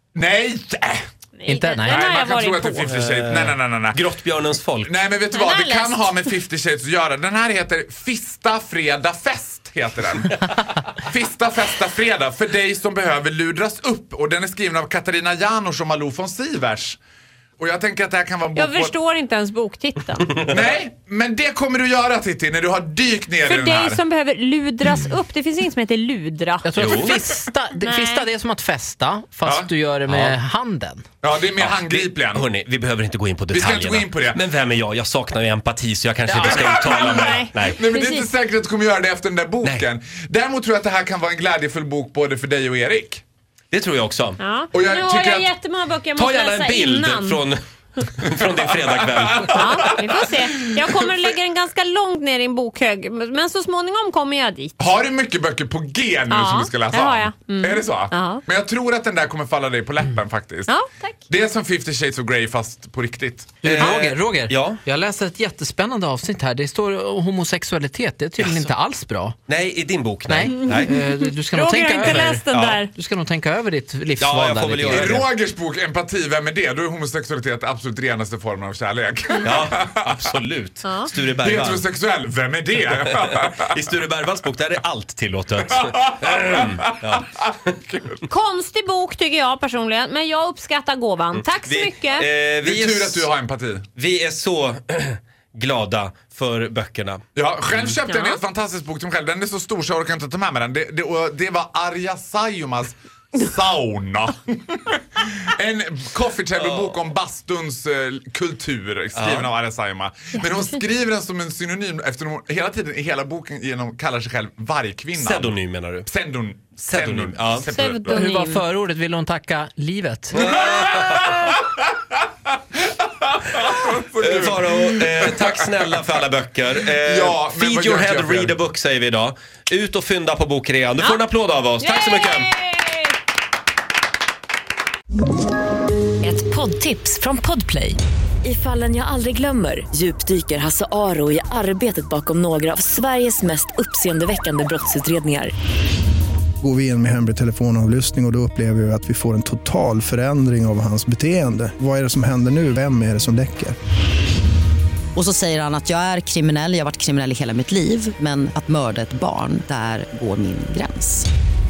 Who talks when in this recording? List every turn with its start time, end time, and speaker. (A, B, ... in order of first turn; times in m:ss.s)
0:00.1-0:01.0 A
0:01.4-0:02.9 B
0:01.4-0:02.0 C
0:01.8-0:04.0 A
0:02.8-0:04.9 D
0:04.8-0:17.0 A
0:05.3-0:06.1 B
0:17.6-0:18.9 A
0:18.5-0:20.3 B
0:20.3-0:24.0 A
0:23.4-0:26.7 B
0:26.6-0:31.0 C
0:26.8-0:27.2 D
0:27.8-0:28.3 B
0:29.4-0:29.7 A
0:30.1-0:30.4 D
0:31.2-0:32.5 A
0:31.6-0:37.8 D
0:33.5-0:34.4 A
0:36.2-0:36.9 C
0:36.4-0:43.2 A
0:36.7-0:38.3 B
0:43.7-0:44.4 D
0:44.4-0:47.5 B
0:44.7-0:45.5 A
0:46.2-0:49.9 D
0:48.3-0:51.1 A
0:49.5-0:54.7 B
0:54.8-1:00.7 A
0:56.3-0:58.4 B
1:00.7-1:01.1 B
1:01.3-1:03.7 A
1:03.6-1:09.4 C
1:03.6-1:04.8 D
1:08.4-1:08.7 D
1:09.5-1:10.9 D
1:10.3-1:15.2 C
1:11.0-1:12.9 B
1:12.5-1:12.8 D
1:14.2-1:15.2 D
1:14.9-1:20.0 A
1:19.4-1:21.8 D
1:20.8-1:21.1 B
1:21.4-1:23.7 A
1:23.6-1:27.3 D
1:25.8-1:26.7 A
1:27.7-1:28.2 A
1:28.3-1:32.2 B
1:31.3-1:33.3 D
1:32.6-1:33.9 A
1:34.0-1:37.2 D
1:37.3-1:58.2 A
1:38.1-1:38.4 B
1:46.6-1:47.0 D
1:49.1-1:49.5 D
1:55.2-1:56.1 D
1:56.9-1:57.8 D
1:57.7-1:58.6 B
1:58.1-2:00.4 C
2:00.3-2:01.5 A
2:00.3-2:01.5 D
2:03.2-2:05.4 A
2:04.2-2:12.5 D
2:06.9-2:08.6 A
2:11.8-2:13.1 B
2:16.2-2:25.5 E
2:26.6-2:33.8 F
2:35.2-2:41.3 G